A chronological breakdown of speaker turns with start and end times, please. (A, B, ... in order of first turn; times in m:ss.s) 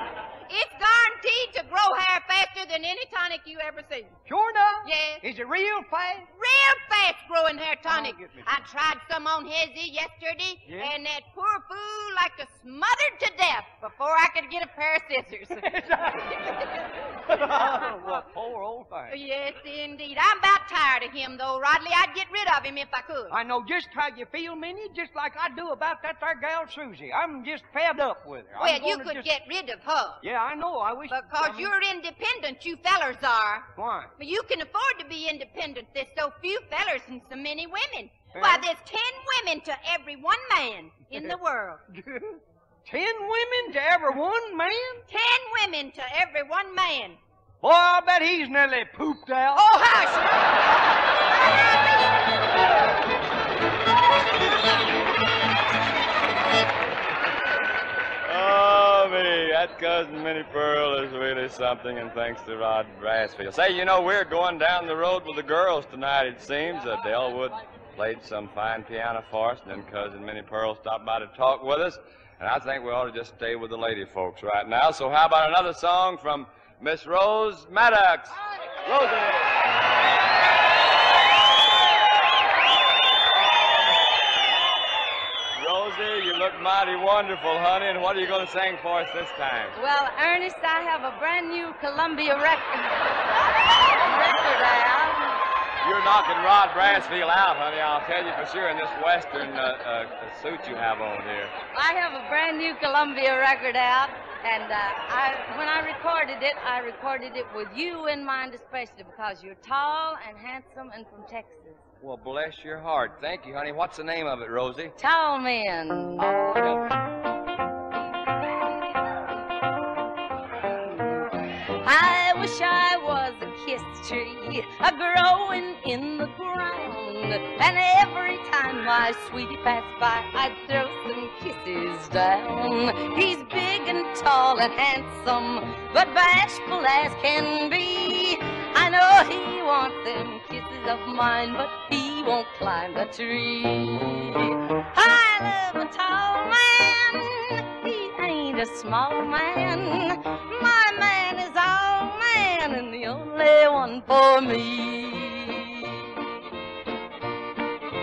0:00.5-0:04.2 A
0:04.3-0:06.3 B
0:04.8-0:05.2 A
0:06.4-0:15.7 A
0:07.9-0:08.5 B
0:10.7-0:10.9 B
0:15.5-0:19.2 B
0:19.1-0:23.3 A
0:23.3-0:29.3 B
0:28.6-0:30.2 A
0:30.2-0:31.7 B
0:31.1-0:41.8 A
0:33.8-0:34.1 B
0:38.4-0:38.7 B
0:41.9-0:45.0 B
0:45.1-0:47.2 A
0:47.6-0:49.7 B
0:49.6-0:50.6 A
0:58.2-1:19.6 C
1:23.3-1:24.0 C
1:25.6-1:29.8 C
1:29.8-1:33.1 D
1:33.8-1:35.4 D
1:35.8-1:41.5 C
1:41.7-1:51.8 D
1:52.0-1:55.0 C
1:55.0-1:56.7 D
2:01.8-2:36.3 D